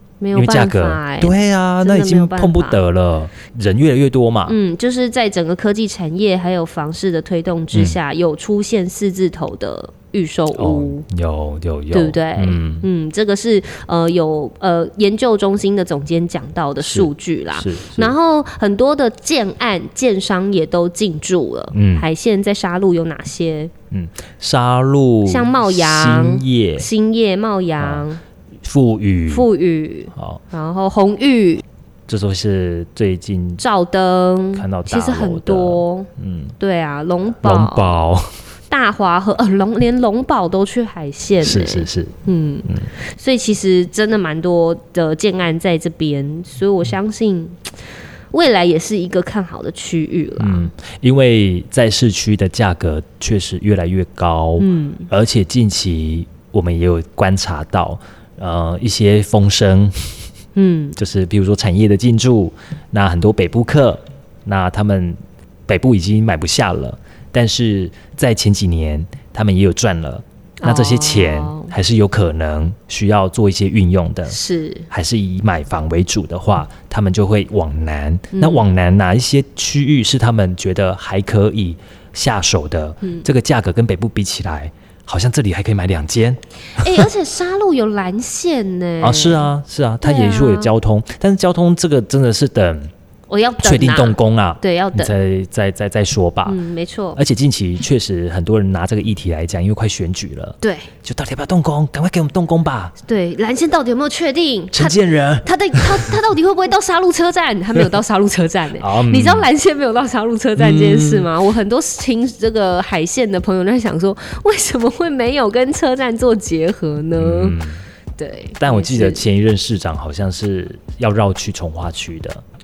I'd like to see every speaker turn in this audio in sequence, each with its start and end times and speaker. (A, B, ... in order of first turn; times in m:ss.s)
0:00.2-0:02.8 A
0:00.3-0:04.6 B
0:04.5-0:11.0 A
0:10.5-0:12.9 B
0:11.9-0:23.7 A
0:16.8-0:18.1 B
0:21.7-0:22.0 B
0:23.9-0:26.9 B
0:25.2-0:28.2 A
0:27.8-0:28.1 B
0:28.6-0:29.5 B
0:29.3-0:31.6 A
0:32.1-0:33.6 B
0:33.6-0:36.1 A
0:34.5-0:36.5 B
0:36.6-0:38.0 A
0:37.3-0:38.3 B
0:38.7-0:47.7 A
0:41.4-0:42.1 B
0:48.3-0:50.7 A
0:50.4-1:00.2 B
0:54.6-0:55.1 A
1:00.6-1:01.0 A
1:01.0-1:14.4 B
1:10.6-1:11.7 A
1:14.3-1:14.9 A
1:14.9-1:27.1 B
1:18.3-1:18.6 A
1:26.8-1:29.5 A
1:29.0-1:32.9 B
1:30.0-1:30.7 A
1:33.3-1:35.1 A
1:33.6-1:36.6 B
1:36.5-1:37.2 A
1:37.2-1:42.9 B
1:40.6-1:40.9 A
1:43.1-1:57.6 A
1:44.7-1:46.2 B
1:48.8-1:49.5 B
1:50.6-1:51.3 B
1:57.2-1:57.8 B
1:58.2-1:59.2 A
1:58.6-2:02.4 B